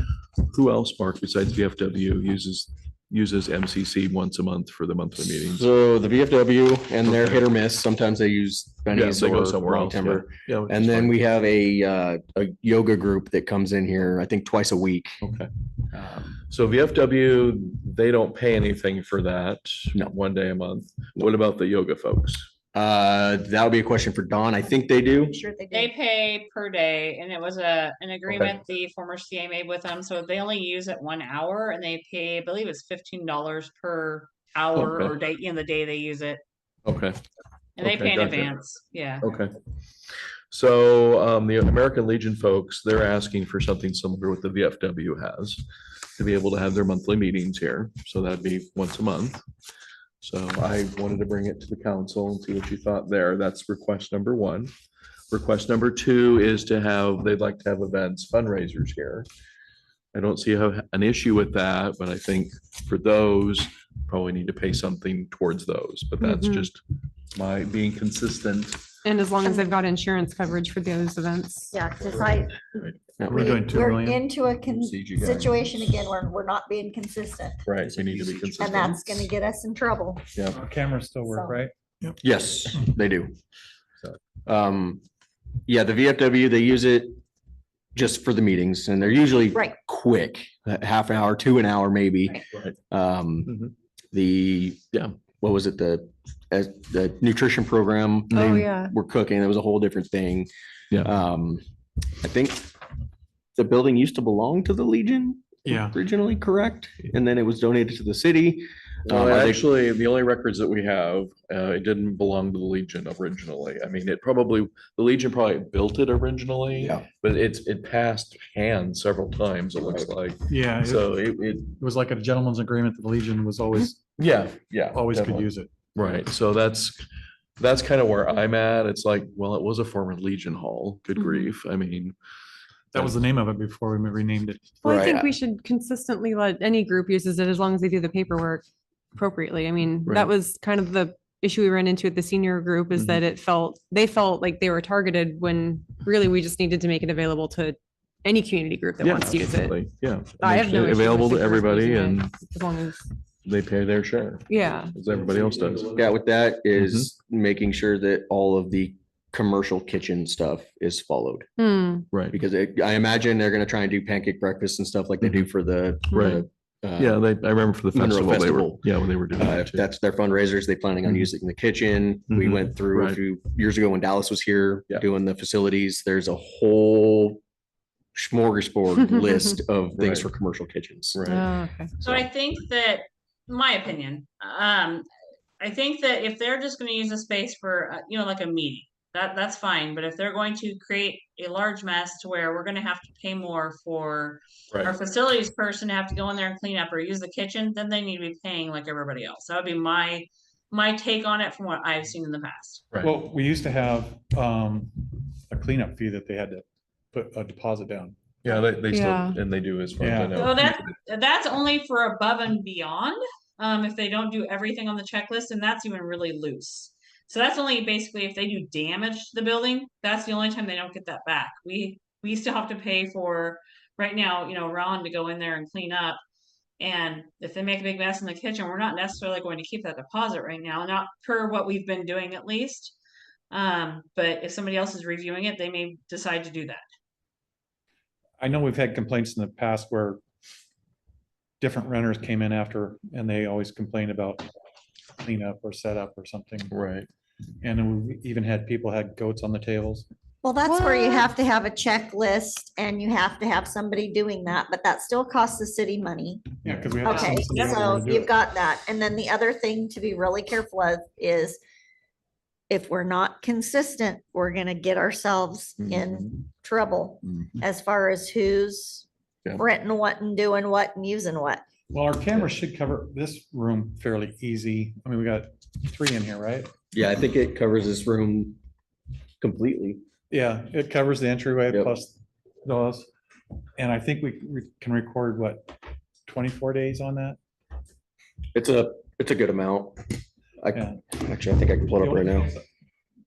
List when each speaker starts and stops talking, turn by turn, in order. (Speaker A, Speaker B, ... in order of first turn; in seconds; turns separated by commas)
Speaker A: 0.4-5.7, Speaker B: 5.5-15.2, Speaker A: 7.0-7.4, Speaker A: 8.9-11.2, Speaker A: 15.2-15.5, Speaker A: 16.4-22.5, Speaker B: 22.7-25.4, Speaker C: 25.2-25.9, Speaker D: 25.7-36.4, Speaker A: 34.7-35.1, Speaker A: 36.9-37.2, Speaker D: 37.8-39.3, Speaker A: 37.8-38.6, Speaker A: 39.2-39.5, Speaker A: 40.5-45.6, Speaker A: 46.2-49.4, Speaker A: 50.2-54.7, Speaker A: 55.3-59.3, Speaker A: 60.1-66.8, Speaker E: 66.2-66.7, Speaker A: 67.3-68.8, Speaker E: 69.0-71.9, Speaker C: 71.7-77.6, Speaker A: 72.0-73.0, Speaker B: 73.2-73.6, Speaker F: 73.2-74.2, Speaker B: 74.7-75.6, Speaker A: 77.7-79.3, Speaker B: 77.9-78.8, Speaker C: 78.6-80.2, Speaker F: 80.5-82.2, Speaker C: 81.3-81.6, Speaker B: 82.2-83.3, Speaker B: 84.5-85.0, Speaker B: 85.7-87.2, Speaker B: 88.0-93.6, Speaker A: 93.5-93.7, Speaker B: 94.1-94.8, Speaker B: 95.4-100.5, Speaker A: 98.3-98.6, Speaker E: 98.3-98.9, Speaker B: 101.0-101.6, Speaker B: 102.2-102.7, Speaker B: 103.6-109.6, Speaker F: 105.7-106.0, Speaker A: 109.1-121.8, Speaker B: 116.8-117.1, Speaker F: 120.5-121.2, Speaker F: 121.7-124.0, Speaker A: 124.2-127.0, Speaker F: 124.9-125.9, Speaker A: 127.6-132.1, Speaker E: 131.2-131.5, Speaker F: 132.9-135.1, Speaker E: 134.8-138.6, Speaker B: 134.8-135.3, Speaker E: 139.1-149.8, Speaker A: 140.0-140.3, Speaker A: 142.9-143.2, Speaker A: 149.0-152.4, Speaker E: 150.4-153.0, Speaker A: 153.4-156.1, Speaker E: 154.5-155.0, Speaker B: 155.9-161.5, Speaker A: 156.8-157.1, Speaker E: 161.6-162.1, Speaker B: 162.3-167.2, Speaker A: 166.1-166.4, Speaker A: 167.0-169.8, Speaker B: 167.9-177.4, Speaker A: 172.3-173.2, Speaker B: 178.1-181.2, Speaker E: 179.0-179.6, Speaker A: 180.0-180.2, Speaker A: 181.1-181.5, Speaker E: 181.2-181.9, Speaker D: 182.0-185.0, Speaker D: 185.6-202.8, Speaker F: 203.0-208.2, Speaker A: 208.4-210.9, Speaker E: 208.9-209.4, Speaker F: 210.0-210.6, Speaker D: 210.3-226.2, Speaker D: 226.8-232.9, Speaker D: 233.5-236.8, Speaker F: 238.4-240.2, Speaker F: 241.6-244.5, Speaker F: 245.2-246.7, Speaker A: 246.7-247.1, Speaker F: 247.6-250.1, Speaker C: 250.4-256.5, Speaker E: 250.7-251.3, Speaker F: 256.6-258.3, Speaker A: 256.7-256.9, Speaker C: 257.0-261.6, Speaker D: 257.1-258.0, Speaker C: 262.7-271.6, Speaker A: 265.8-266.2, Speaker F: 271.9-276.7, Speaker B: 276.9-278.6, Speaker B: 279.4-280.0, Speaker F: 280.3-283.1, Speaker F: 283.8-287.4, Speaker B: 288.5-292.5, Speaker F: 290.7-291.0, Speaker F: 292.0-292.6